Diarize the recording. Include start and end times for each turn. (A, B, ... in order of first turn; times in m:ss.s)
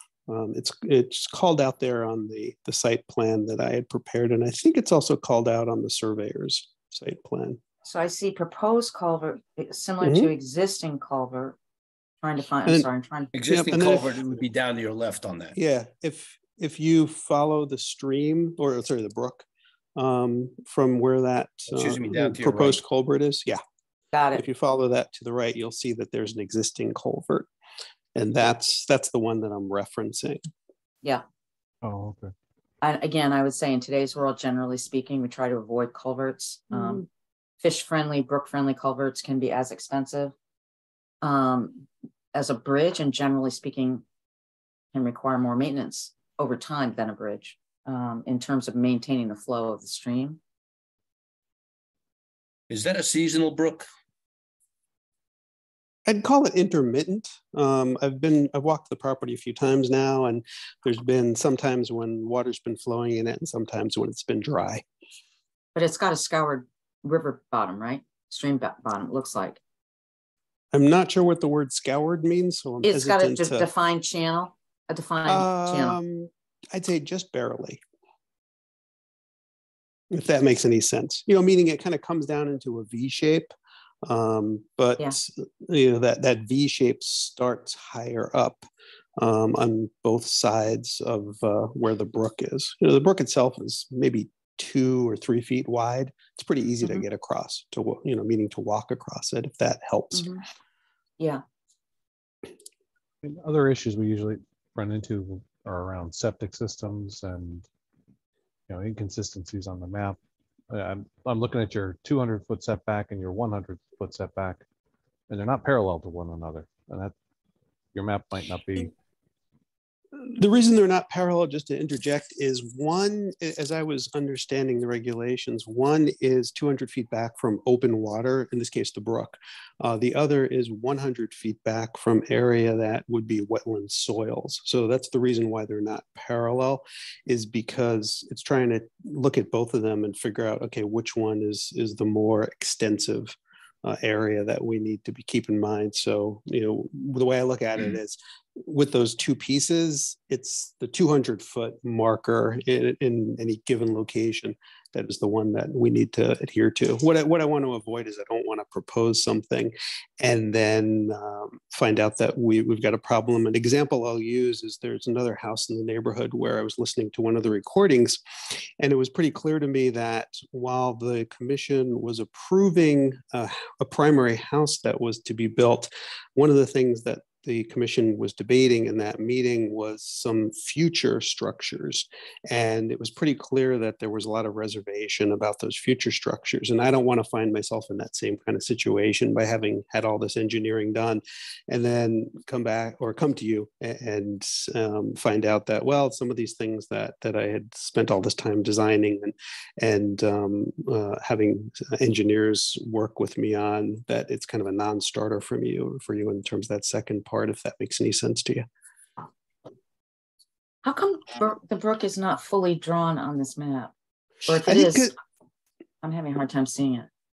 0:00.3-0:07.6 A
0:07.8-0:11.6 B
0:10.0-0:10.3 A
0:12.2-0:13.3 B
0:13.3-0:15.5 C
0:13.5-0:14.3 A
0:15.5-0:19.4 A
0:20.0-0:23.6 A
0:21.7-0:22.8 C
0:24.1-0:24.4 B
0:24.3-0:27.5 A
0:28.1-0:30.4 A
0:31.8-0:32.3 D
0:32.8-0:37.0 B
0:37.6-0:40.3 B
0:41.2-0:44.0 B
0:44.9-0:50.4 B
0:52.7-0:53.8 C
0:56.1-1:04.8 A
1:05.7-1:09.6 B
1:10.7-1:13.6 A
1:12.8-1:16.0 B
1:15.3-1:17.8 A
1:20.1-1:23.5 A
1:24.0-1:28.7 A
1:29.2-1:40.3 A
1:40.1-1:40.4 B
1:43.2-1:47.7 D
1:48.7-1:50.2 D
1:50.7-1:54.6 D
1:55.3-1:57.1 D
1:57.9-1:58.9 D
2:00.2-2:48.2 A
2:48.8-3:28.6 A
3:30.8-3:33.9 B
3:34.5-3:35.1 B
3:34.5-3:35.1 A
3:36.0-3:37.1 B